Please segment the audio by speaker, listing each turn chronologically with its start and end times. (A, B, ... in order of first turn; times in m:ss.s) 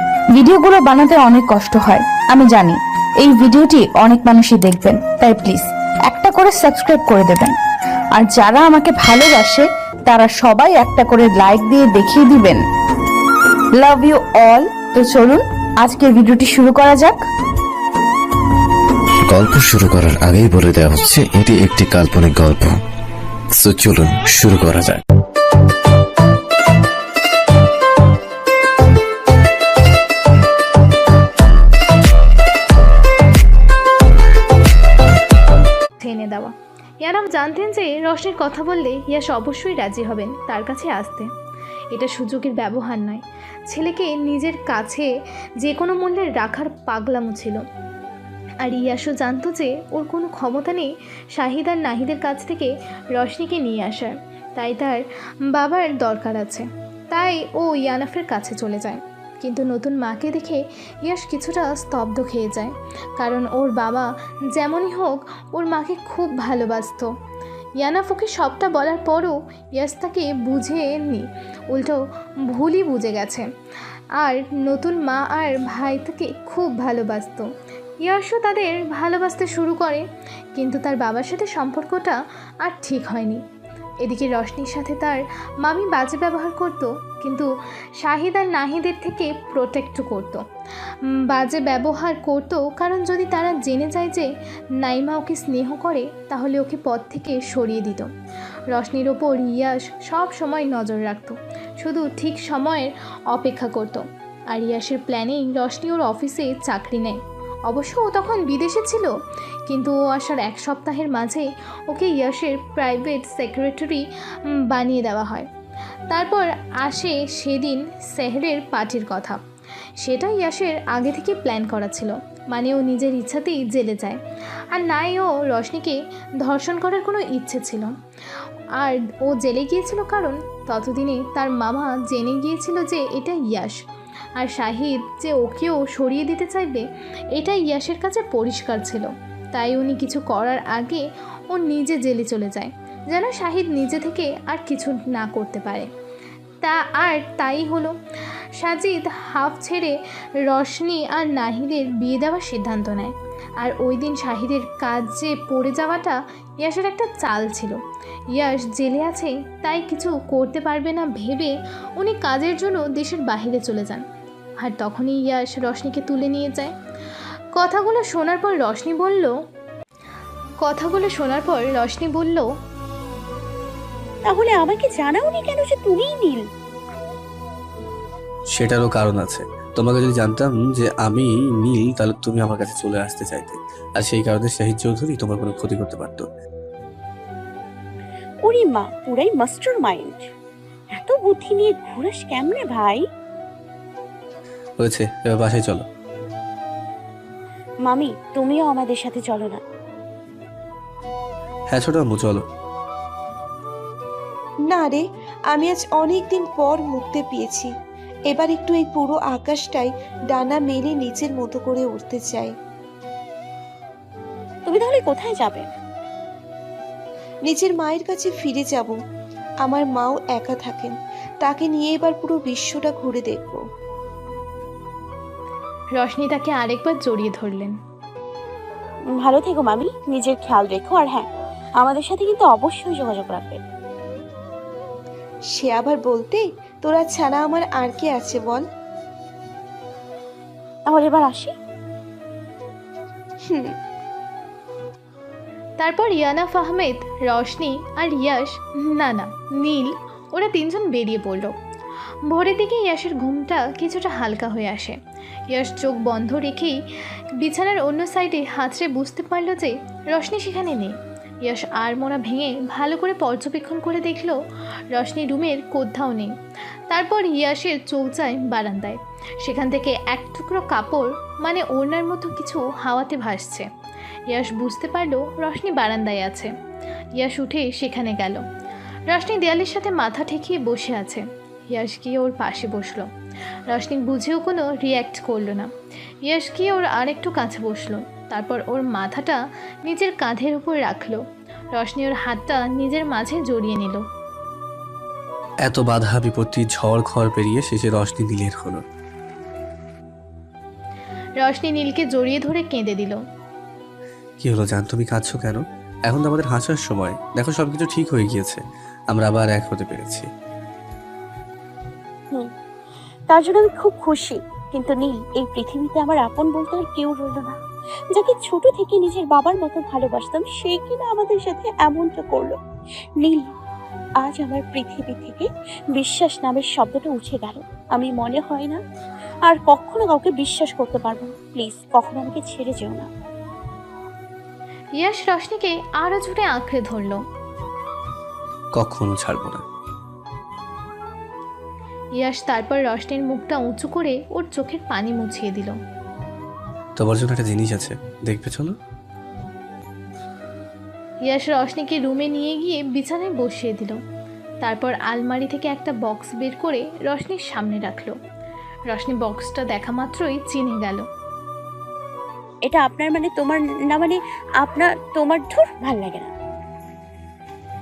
0:00.3-0:07.6 A
0:08.1-0:12.6 A
0:13.7-0:17.2 A
0:19.3-0:22.8 B
0:23.6-0:25.0 B
0:36.0-0:41.3 C
0:41.9-0:47.6 C
0:48.6-1:07.1 C
1:07.8-1:13.4 C
1:14.2-1:17.5 C
1:18.0-1:23.4 C
1:24.0-1:27.5 C
1:28.0-1:30.4 C
1:31.2-1:34.3 C
1:34.8-1:38.1 C
1:38.7-1:49.1 C
1:49.7-1:54.0 C
1:54.6-1:55.5 C
1:56.1-1:59.4 C
2:00.0-2:04.2 C
2:04.7-2:07.9 C
2:08.8-2:13.8 C
2:14.4-2:25.9 C
2:26.6-2:27.9 C
2:28.6-2:37.8 C
2:38.3-2:44.0 C
2:44.6-2:46.7 C
2:47.6-2:49.3 C
2:50.6-2:52.5 C
2:54.3-2:56.4 D
2:58.5-3:06.3 E
3:08.4-3:10.3 D
3:10.9-3:13.0 D
3:14.8-3:15.8 E
3:17.8-3:19.6 D
3:21.7-3:22.4 E
3:24.7-3:27.7 F
3:28.3-3:32.5 F
3:34.6-3:35.6 D
3:37.4-3:39.0 F
3:39.6-3:43.6 F
3:46.0-3:47.7 C
3:49.1-3:51.3 D
3:51.8-3:53.6 D
3:55.5-3:58.6 F
4:00.8-4:01.5 D
4:05.8-4:11.5 C
4:12.3-4:15.0 C
4:15.5-4:16.8 C
4:17.4-4:24.4 C
4:24.9-4:26.3 C
4:26.9-4:33.7 C
4:34.3-4:36.5 C
4:37.2-4:38.4 C
4:39.1-4:43.1 C
4:43.7-4:45.7 C
4:46.2-4:51.2 C
4:51.7-4:54.0 C
4:55.6-4:58.8 E
5:01.4-5:03.2 C
5:04.4-5:10.3 E
5:13.3-5:17.6 D
5:18.1-5:22.6 D
5:23.2-5:23.5 D
5:24.2-5:28.8 D
5:29.4-5:33.1 D
5:35.0-5:37.2 C
5:38.8-5:39.6 E
5:42.2-5:45.8 C
5:47.0-5:48.8 E
5:51.2-5:54.0 C
5:54.6-5:58.1 C
5:58.9-6:01.0 C
6:02.6-6:06.3 D